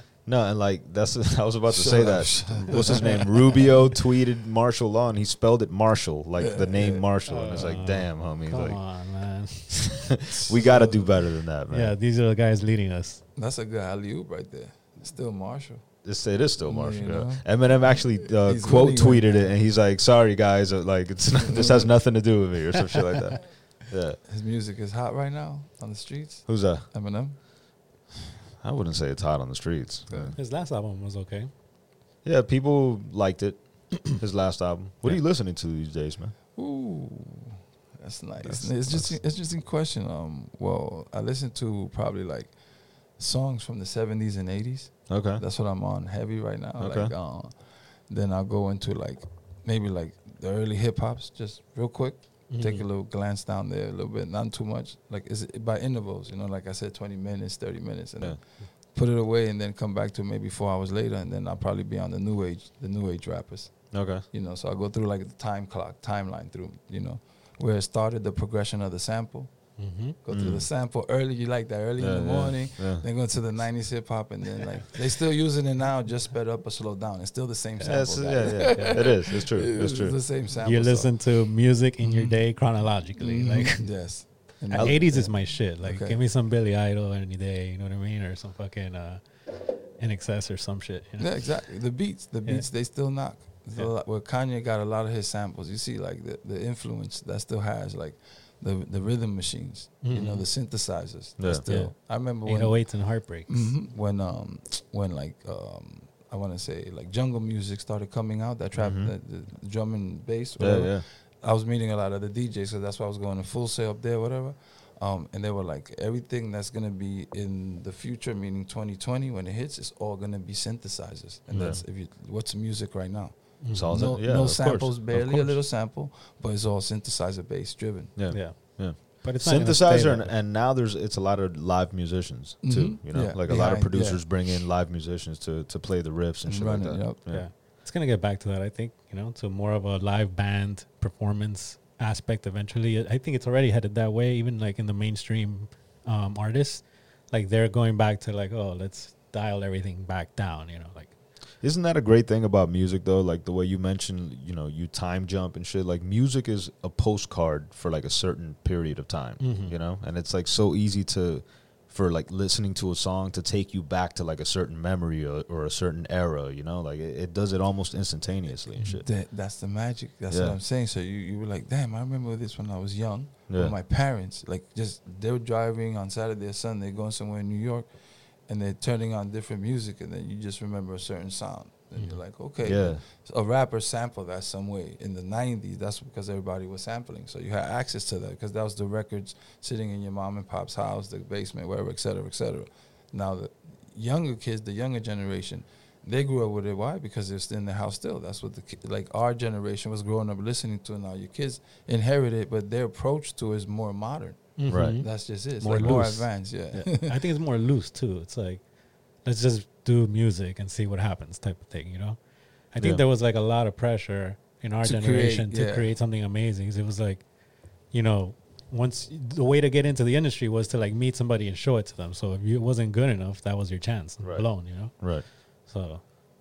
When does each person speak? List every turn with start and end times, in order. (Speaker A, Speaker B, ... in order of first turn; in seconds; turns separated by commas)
Speaker A: 0.2-8.8, Speaker B: 1.7-3.8, Speaker C: 2.7-3.2, Speaker B: 6.4-7.1, Speaker C: 7.2-9.9, Speaker A: 9.7-11.9, Speaker B: 10.3-11.2, Speaker C: 11.7-13.2, Speaker B: 13.3-15.8, Speaker A: 16.0-24.2, Speaker B: 16.6-19.5, Speaker B: 21.4-21.9, Speaker B: 24.3-27.4, Speaker A: 26.5-26.9, Speaker A: 28.6-30.3, Speaker B: 30.1-30.4, Speaker C: 30.3-31.5, Speaker A: 32.2-36.3, Speaker B: 36.5-42.5, Speaker A: 38.5-39.1, Speaker B: 43.2-47.5, Speaker A: 45.1-45.4, Speaker A: 46.8-47.1, Speaker B: 48.1-58.4, Speaker C: 52.5-52.8, Speaker B: 58.9-69.5, Speaker A: 63.9-64.2, Speaker C: 69.8-70.2, Speaker B: 70.2-81.1, Speaker A: 70.3-70.7, Speaker A: 72.0-73.0, Speaker C: 77.8-79.0, Speaker A: 77.8-80.2, Speaker C: 80.6-83.9, Speaker B: 82.0-82.4, Speaker B: 83.2-86.2, Speaker C: 84.7-91.5, Speaker B: 91.2-102.9, Speaker C: 100.0-100.5, Speaker A: 101.4-101.6, Speaker C: 101.6-101.9, Speaker C: 102.4-103.7, Speaker B: 103.5-128.2, Speaker A: 108.8-109.1, Speaker A: 110.6-111.0, Speaker A: 121.5-121.8, Speaker C: 123.6-123.9, Speaker A: 123.7-125.6, Speaker A: 128.2-137.5, Speaker C: 128.3-130.4, Speaker B: 132.6-134.2, Speaker B: 136.4-137.2, Speaker C: 137.3-151.1, Speaker A: 151.6-169.1, Speaker C: 159.4-159.8, Speaker B: 168.8-177.9, Speaker A: 170.3-170.6, Speaker A: 173.5-173.7, Speaker B: 178.5-207.2, Speaker A: 182.6-183.0, Speaker C: 204.6-208.6, Speaker A: 204.7-205.0, Speaker A: 205.7-206.1, Speaker C: 209.2-212.2, Speaker C: 212.7-217.2, Speaker B: 214.8-215.9, Speaker C: 217.9-226.0, Speaker A: 224.2-225.2